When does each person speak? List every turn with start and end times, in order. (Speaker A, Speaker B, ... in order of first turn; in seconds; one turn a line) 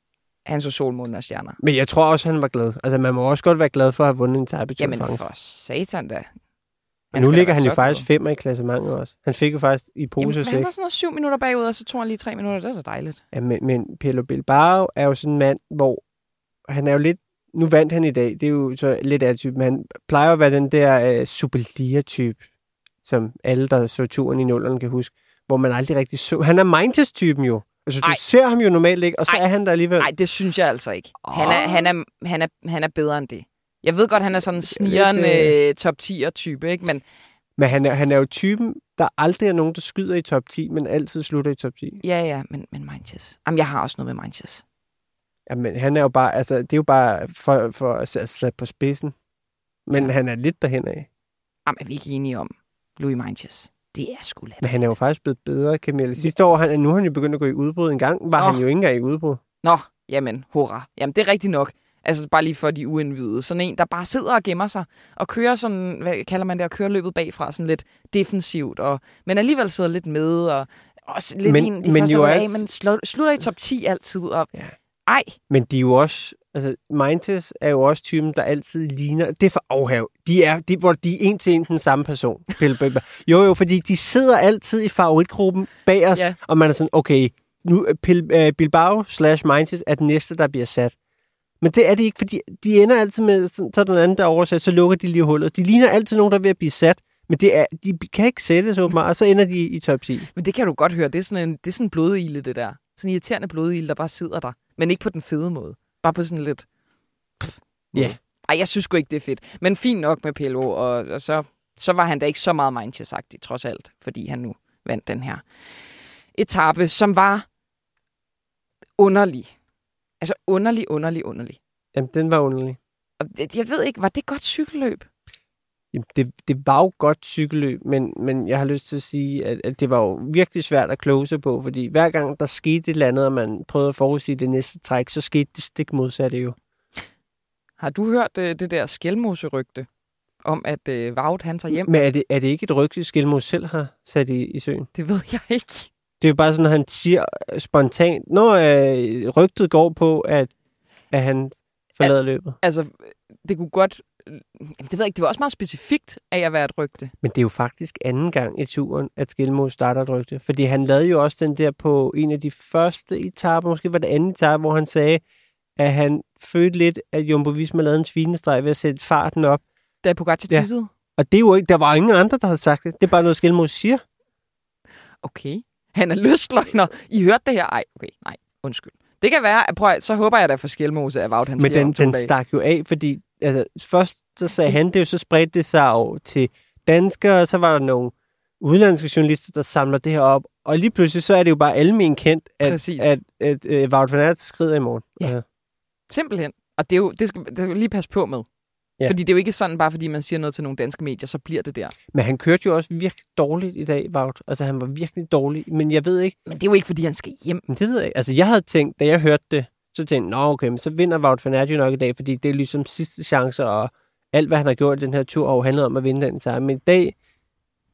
Speaker A: 0.4-1.6
Speaker B: 1.6-5.2
Speaker A: 4.8-6.3
Speaker A: 7.1-8.1
Speaker B: 7.1-10.7
Speaker A: 10.2-13.2
Speaker B: 13.3-16.0
Speaker B: 16.7-22.4
Speaker B: 23.0-30.1
Speaker A: 30.0-37.0
Speaker B: 31.2-31.9
Speaker B: 34.7-35.5
Speaker B: 37.6-42.0
Speaker A: 42.0-44.6
Speaker B: 45.5-49.1
Speaker B: 49.9-51.1
Speaker A: 51.6-54.9
Speaker B: 54.6-59.4
Speaker A: 58.4-58.6
Speaker A: 59.6-74.5
Speaker B: 71.4-72.6
Speaker A: 75.0-75.4
Speaker B: 75.5-90.9
Speaker B: 91.6-100.3
Speaker A: 100.3-106.7
Speaker A: 107.4-117.5
Speaker A: 119.0-119.6
Speaker A: 120.2-121.6
Speaker B: 121.9-122.8
Speaker A: 123.2-125.1
Speaker B: 125.9-136.6
Speaker A: 137.8-139.9
Speaker A: 140.4-141.9
Speaker B: 141.8-144.9
Speaker A: 144.9-145.9
Speaker B: 146.2-150.5
Speaker B: 151.1-152.6
Speaker A: 152.0-157.1
Speaker B: 157.2-165.2
Speaker B: 165.8-169.6
Speaker A: 170.0-170.9
Speaker B: 170.5-174.0
Speaker A: 175.2-182.3
Speaker B: 181.6-195.4
Speaker A: 192.6-193.2
Speaker A: 196.1-198.4
Speaker A: 199.0-201.9
Speaker B: 202.1-206.3
Speaker A: 206.4-207.7
Speaker B: 207.7-217.1